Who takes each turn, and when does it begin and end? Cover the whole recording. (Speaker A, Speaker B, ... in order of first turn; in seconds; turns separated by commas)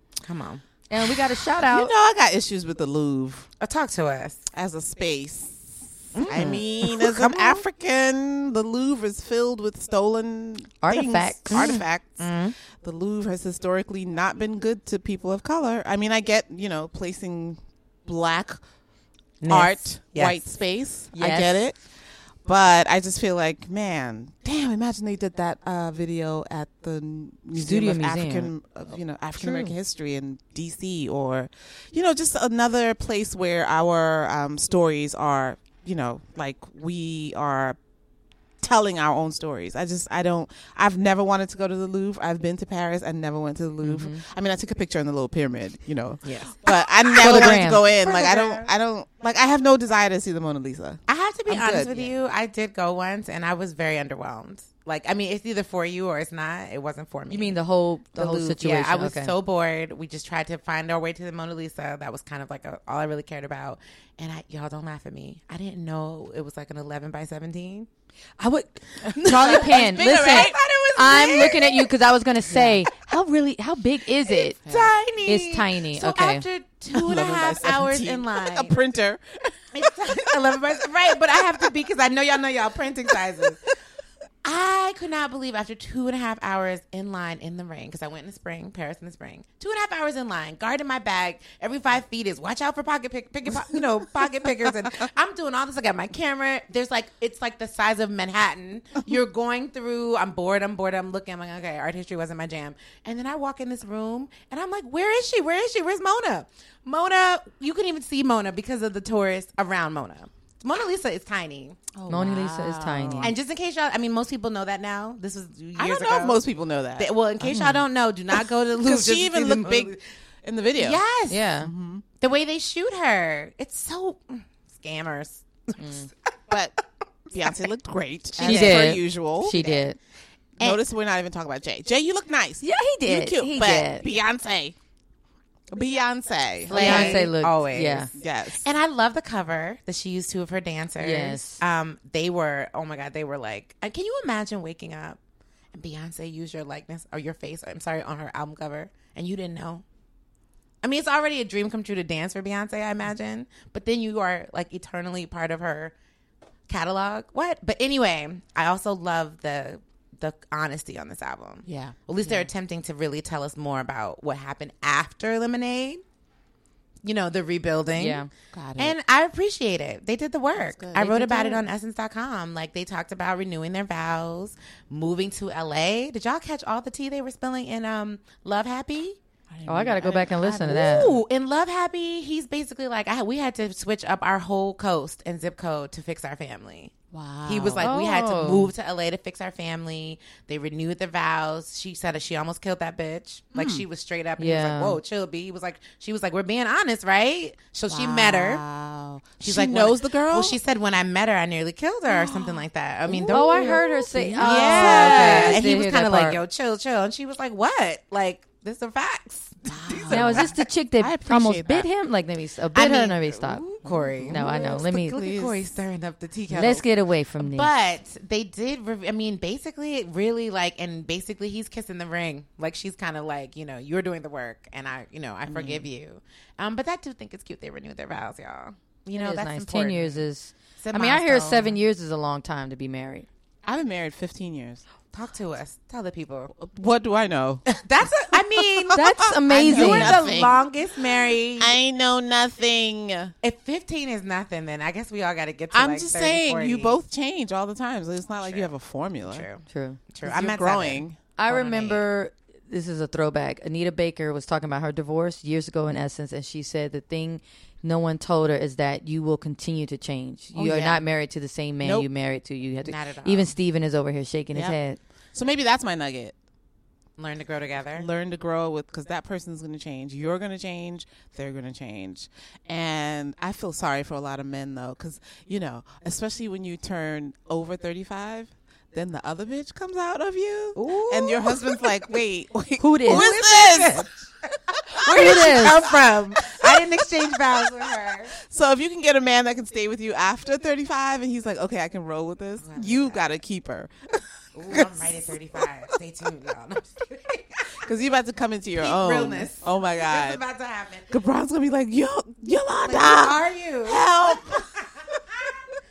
Speaker A: 0.2-0.6, Speaker B: 0.9-1.9, Speaker C: 1.6-3.5, Speaker A: 3.6-4.5, Speaker C: 4.5-18.8, Speaker A: 6.1-7.6, Speaker B: 10.8-11.8, Speaker A: 11.5-12.6, Speaker A: 19.4-20.4, Speaker C: 19.4-37.9, Speaker B: 21.1-21.7, Speaker B: 27.6-28.5, Speaker B: 29.4-29.7, Speaker C: 38.6-52.1, Speaker B: 43.8-44.2, Speaker A: 46.2-48.7, Speaker B: 47.2-47.9, Speaker A: 51.1-57.6, Speaker B: 57.3-59.3, Speaker A: 58.1-67.9, Speaker B: 68.4-74.6, Speaker C: 69.1-70.6, Speaker A: 69.1-71.9, Speaker A: 72.5-72.8, Speaker A: 74.3-78.8, Speaker C: 74.7-74.9, Speaker B: 75.2-76.4, Speaker C: 76.9-81.1, Speaker A: 79.7-83.6, Speaker A: 84.4-111.8, Speaker C: 111.9-113.3, Speaker B: 112.1-113.3, Speaker A: 113.2-116.4, Speaker C: 115.8-117.1, Speaker A: 117.0-120.0, Speaker B: 117.5-117.8, Speaker C: 118.4-121.0, Speaker A: 120.8-121.5, Speaker B: 121.3-121.7, Speaker C: 121.5-122.0, Speaker A: 122.2-126.1, Speaker B: 125.8-126.1, Speaker C: 126.5-126.8, Speaker C: 127.3-129.6, Speaker A: 128.3-129.9, Speaker B: 128.4-130.0, Speaker C: 130.6-134.8, Speaker B: 132.6-134.1, Speaker C: 135.7-137.3, Speaker A: 136.7-145.2, Speaker B: 136.7-138.1, Speaker C: 138.2-138.7, Speaker B: 141.0-141.6, Speaker A: 145.7-149.8, Speaker A: 150.8-155.9, Speaker A: 156.7-166.0, Speaker C: 161.7-162.0, Speaker A: 167.0-179.2, Speaker B: 167.9-168.3, Speaker C: 168.5-168.9, Speaker C: 170.6-171.6, Speaker C: 179.5-181.1, Speaker B: 179.7-181.1, Speaker A: 180.0-198.7, Speaker C: 187.1-187.9, Speaker B: 187.8-188.7, Speaker C: 193.5-193.8, Speaker B: 194.4-195.0, Speaker C: 197.9-200.6, Speaker A: 199.4-210.6, Speaker C: 202.1-202.6, Speaker C: 203.2-205.7, Speaker B: 203.2-206.4, Speaker C: 209.7-211.9, Speaker B: 210.1-213.6, Speaker A: 212.7-230.2, Speaker C: 213.8-215.6, Speaker B: 214.3-215.4, Speaker B: 216.5-217.7, Speaker C: 225.5-225.9, Speaker B: 229.2-233.3, Speaker A: 230.8-231.8, Speaker C: 233.7-234.8, Speaker A: 235.1-236.5, Speaker C: 236.5-243.3, Speaker A: 237.7-241.8, Speaker B: 238.9-240.4, Speaker A: 243.4-247.0, Speaker C: 245.7-249.5, Speaker A: 248.4-252.1, Speaker B: 249.7-250.0, Speaker C: 250.2-251.2, Speaker B: 251.4-265.0, Speaker C: 260.5-261.1, Speaker A: 261.8-262.1, Speaker A: 262.8-263.6, Speaker C: 264.5-266.4, Speaker A: 267.2-268.1, Speaker C: 267.9-284.1, Speaker A: 280.8-282.2, Speaker B: 282.8-283.3, Speaker A: 283.1-284.1, Speaker A: 284.7-288.4, Speaker C: 285.1-287.1, Speaker B: 285.1-285.8, Speaker C: 288.5-295.6, Speaker A: 292.6-293.2, Speaker A: 294.6-297.9, Speaker C: 297.8-300.4, Speaker A: 298.8-301.1, Speaker C: 301.1-304.6, Speaker A: 302.9-305.5